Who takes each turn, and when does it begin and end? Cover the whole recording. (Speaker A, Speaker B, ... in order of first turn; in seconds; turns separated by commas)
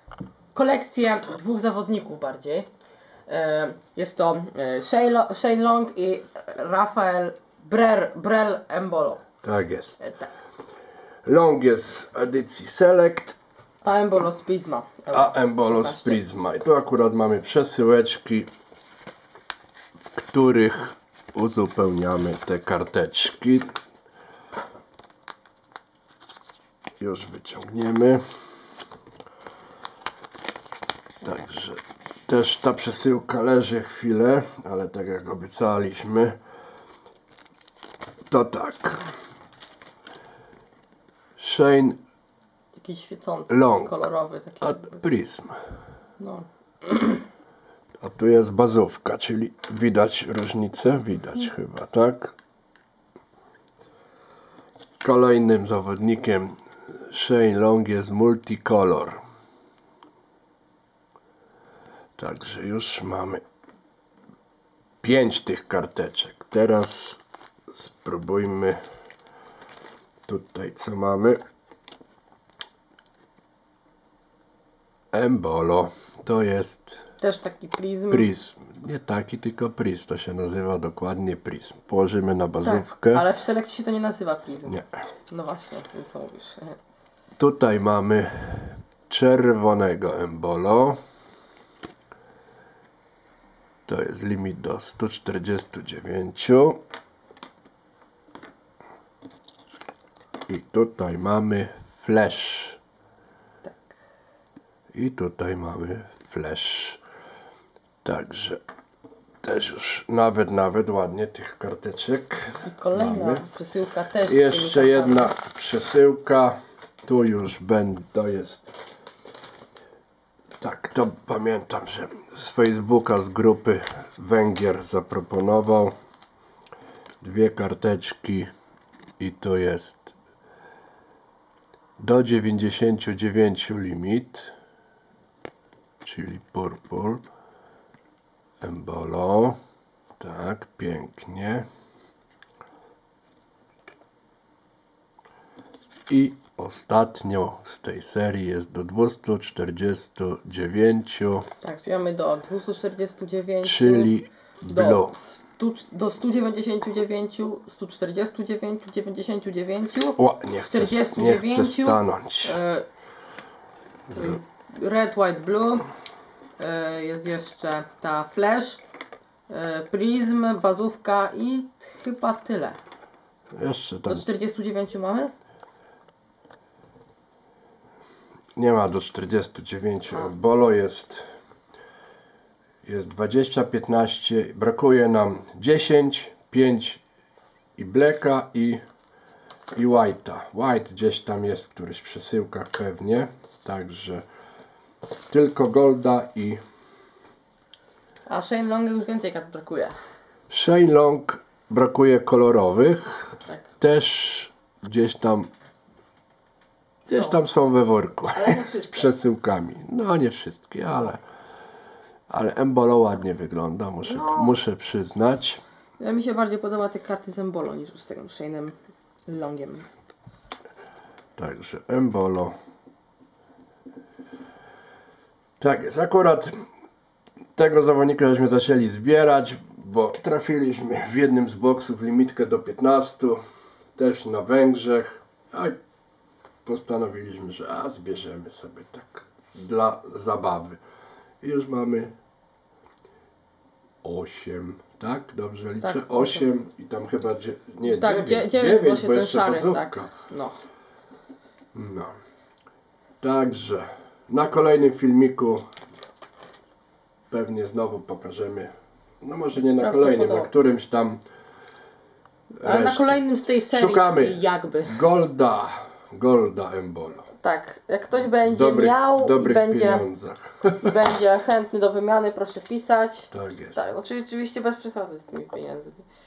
Speaker A: 0.5-2.7, Speaker A: 3.3-9.2, Speaker B: 9.4-10.0, Speaker A: 10.0-10.3, Speaker B: 11.2-13.4, Speaker A: 13.8-16.2, Speaker B: 15.1-18.5, Speaker B: 20.1-23.7, Speaker B: 27.0-28.2, Speaker B: 31.2-36.4, Speaker B: 38.3-39.1, Speaker B: 41.4-42.0, Speaker A: 42.8-45.0, Speaker B: 43.5-44.0, Speaker B: 44.6-45.6, Speaker A: 46.2-47.2, Speaker B: 48.0-52.4, Speaker B: 55.0-59.2, Speaker B: 62.2-63.4, Speaker B: 65.0-68.8, Speaker B: 70.3-71.4, Speaker B: 75.1-77.0, Speaker A: 77.2-78.3, Speaker B: 78.1-83.2, Speaker A: 82.6-86.8, Speaker B: 84.7-85.0, Speaker B: 87.4-91.0, Speaker B: 93.9-96.8, Speaker B: 100.5-102.8, Speaker A: 103.6-103.9, Speaker B: 104.9-107.0, Speaker B: 108.0-108.6, Speaker B: 109.4-113.5, Speaker A: 112.6-115.4, Speaker B: 114.2-118.8, Speaker B: 120.6-125.9, Speaker B: 127.2-128.5, Speaker B: 129.2-130.2, Speaker B: 132.0-134.5, Speaker B: 136.0-137.2, Speaker B: 138.6-139.6, Speaker B: 140.2-141.7, Speaker B: 146.1-151.5, Speaker A: 151.6-154.1, Speaker B: 153.6-155.2, Speaker A: 154.7-162.8, Speaker B: 160.2-162.6, Speaker B: 164.1-164.4, Speaker A: 164.1-165.8, Speaker A: 166.6-168.8, Speaker A: 169.5-172.8, Speaker B: 173.6-174.2, Speaker A: 174.1-175.3, Speaker B: 178.6-181.2, Speaker B: 182.8-187.0, Speaker B: 187.8-188.8, Speaker B: 189.7-194.2, Speaker B: 195.3-196.6, Speaker A: 198.3-199.9, Speaker B: 200.5-205.5, Speaker B: 207.1-211.2, Speaker A: 207.1-207.4, Speaker A: 208.3-209.1, Speaker B: 212.3-215.6, Speaker A: 214.1-214.5, Speaker A: 216.0-218.8, Speaker A: 219.3-219.9, Speaker B: 221.4-222.5, Speaker B: 225.6-226.5, Speaker B: 227.6-233.4, Speaker B: 234.0-235.8, Speaker B: 236.7-240.8, Speaker B: 241.4-242.1, Speaker B: 244.0-250.1, Speaker A: 245.8-246.5, Speaker A: 247.8-250.6, Speaker B: 251.7-252.1, Speaker B: 253.2-255.6, Speaker B: 257.3-261.2, Speaker A: 259.8-260.5, Speaker B: 262.6-267.3, Speaker A: 262.6-265.0, Speaker A: 267.4-270.0, Speaker B: 268.4-270.9, Speaker A: 270.8-276.1, Speaker B: 273.3-273.9